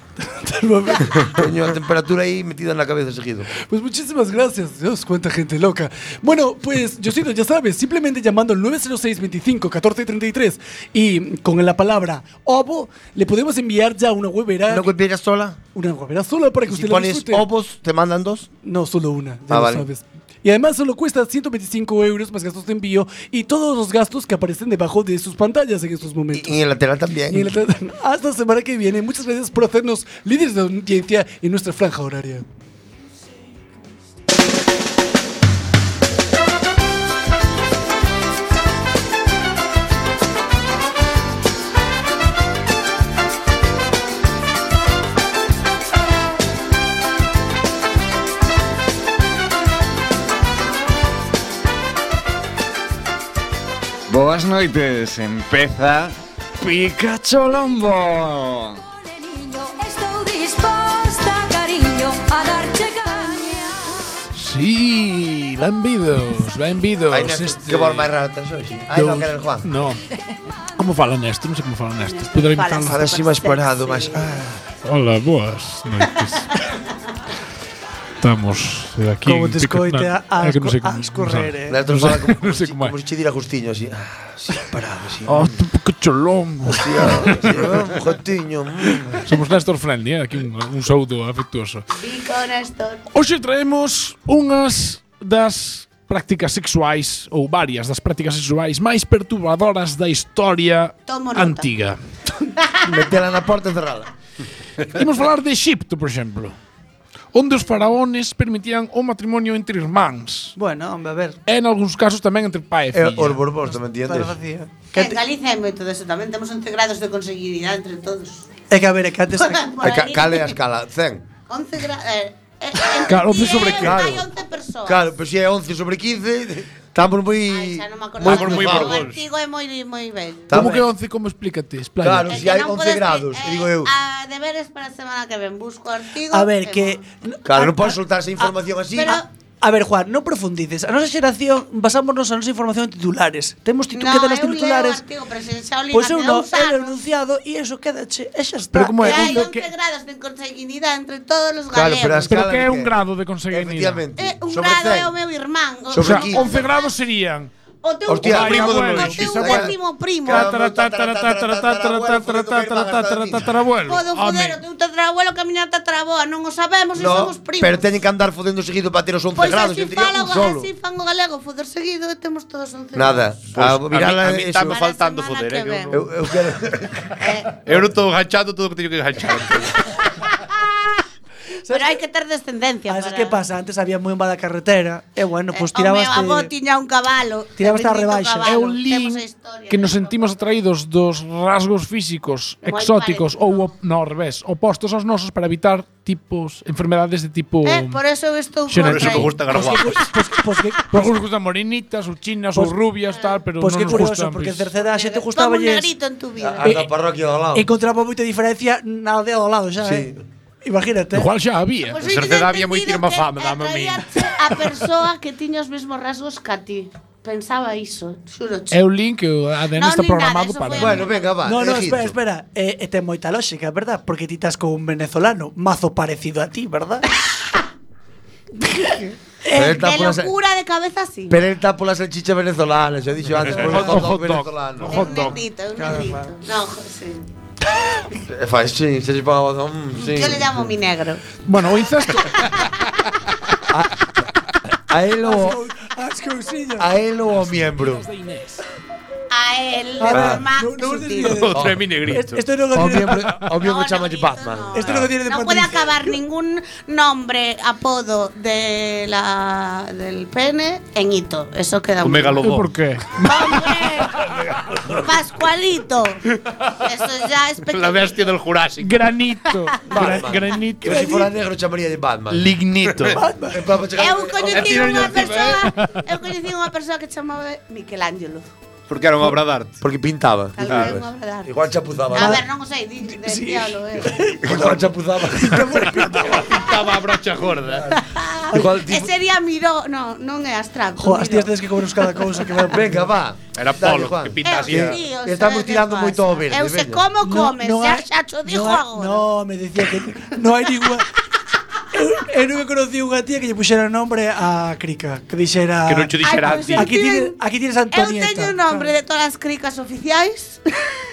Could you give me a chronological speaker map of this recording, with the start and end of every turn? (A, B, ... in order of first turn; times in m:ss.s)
0:00.2-0:01.5 A
0:01.3-0:03.5 B
0:03.6-0:14.9 A
0:14.7-0:15.6 B
0:15.7-0:17.5 A
0:16.6-0:18.5 B
0:18.6-0:26.6 A
0:19.5-0:19.9 B
0:26.3-0:27.5 B
0:27.3-0:32.4 A
0:54.1-0:58.8 C
0:58.9-1:04.0 D
1:04.3-1:07.6 E
1:07.1-1:09.7 B
1:08.9-1:10.0 E
1:10.8-1:13.0 E
1:12.0-1:14.4 F
1:12.8-1:14.6 B
1:14.8-1:16.5 E
1:18.2-1:22.9 E
1:19.2-1:21.8 G
1:21.7-1:25.6 B
1:25.2-1:27.6 E
1:26.6-1:29.2 B
1:29.2-1:31.8 E
1:31.9-1:33.0 F
1:33.1-1:42.0 E
1:41.1-1:41.7 F
1:42.8-1:44.1 B
1:44.9-1:46.5 E
1:47.3-1:50.5 E
1:50.6-1:51.4 G
1:51.5-1:53.4 E
1:52.9-1:54.3 B
1:53.9-1:55.2 G
1:54.9-1:58.5 F
1:58.7-1:59.6 G
1:59.4-2:00.6 F
1:59.8-2:01.2 B
2:01.5-2:05.0 F
2:03.0-2:04.0 E
2:03.7-2:04.3 B
2:04.8-2:09.0 B
2:07.5-2:10.6 F
2:08.2-2:09.2 H
2:10.5-2:10.8 B
2:10.5-2:12.4 E
2:12.0-2:13.9 B
2:12.3-2:17.0 F
2:16.3-2:18.5 G
2:17.4-2:19.2 B
2:18.9-2:19.2 F
2:19.0-2:25.0 G
2:23.9-2:27.0 F
2:25.9-2:29.4 G
2:28.7-2:29.7 E
2:29.0-2:32.4 F
2:31.7-2:32.9 B
2:32.3-2:34.0 E
2:33.5-2:35.1 B
2:34.2-2:36.9 F
2:35.9-2:36.4 B
2:36.0-2:37.5 E
2:37.8-2:40.6 F
2:38.1-2:39.7 B
2:38.2-2:44.6 E
2:40.3-2:43.6 B
2:43.8-2:47.8 F
2:46.9-2:50.7 B
2:49.3-2:53.3 F
2:52.9-2:54.8 B
2:53.5-2:56.0 H
2:54.6-2:55.9 F
2:55.9-2:57.2 B
2:57.2-2:57.5 F
2:57.6-2:59.9 H
3:01.7-3:01.9 G
3:01.7-3:03.4 F
3:02.9-3:06.5 G
3:05.5-3:10.6 F
3:07.6-3:08.7 G
3:08.4-3:18.0 E
3:12.6-3:13.7 F
3:17.6-3:19.3 F
3:18.7-3:19.3 E
3:18.8-3:20.0 H
3:19.5-3:21.1 G
3:20.9-3:24.7 E
3:23.1-3:23.4 F
3:23.6-3:25.9 G
3:24.8-3:26.8 F
3:26.4-3:27.7 B
3:27.5-3:30.1 G
3:29.8-3:30.2 B
3:30.6-3:31.3 G
3:31.1-3:32.0 E
3:31.8-3:38.8 F
3:32.0-3:34.2 H
3:38.7-3:41.0 E
3:39.7-3:41.2 F
3:40.7-3:42.2 B
3:41.4-3:47.0 G
3:49.4-3:49.8 G
3:49.5-3:51.4 F
3:49.5-3:50.3 B
3:51.3-3:55.2 B
3:53.6-3:55.4 E
3:54.8-3:57.2 F
3:55.8-3:56.4 G
3:58.2-4:00.7 B
3:59.9-4:01.3 F
4:01.4-4:02.5 E
4:03.7-4:04.1 B
4:04.9-4:05.6 B
4:05.2-4:06.9 A
4:06.8-4:08.0 B
4:07.9-4:08.4 E
4:09.3-4:11.5 F
4:10.1-4:10.4 B
4:10.1-4:13.4 A
4:11.3-4:12.4 H
4:11.5-4:11.9 B
4:12.7-4:14.9 B
4:13.5-4:22.5 F
4:14.8-4:16.1 A
4:22.0-4:22.7 H
4:22.4-4:23.4 E
4:23.2-4:24.2 F
4:24.9-4:26.2 F
4:26.8-4:28.2 F
4:27.7-4:29.0 H
4:28.8-4:31.1 E
4:29.9-4:32.5 B
4:30.8-4:31.3 A
4:32.3-4:33.2 H
4:33.1-4:33.6 A
4:33.5-4:35.1 B
4:33.9-4:38.5 F
4:34.4-4:35.6 H
4:34.7-4:36.0 E
4:38.9-4:39.7 H
4:39.8-4:42.4 B
4:40.6-4:41.5 F
4:40.6-4:41.0 H
4:42.1-4:44.2 F
4:43.3-4:43.6 A
4:44.1-4:44.8 A
4:44.4-4:46.4 B
4:45.3-4:46.4 A
4:46.2-4:47.9 H
4:47.7-4:48.0 B
4:47.9-4:51.5 F
4:48.5-4:49.1 B
4:51.0-4:53.0 G
4:52.0-4:52.7 F
4:52.7-4:57.0 B
4:53.5-4:55.0 H
4:54.4-4:59.2 F
4:57.2-5:01.0 G
5:01.9-5:08.9 G
5:05.8-5:06.9 H
5:06.2-5:07.3 F
5:07.9-5:10.9 F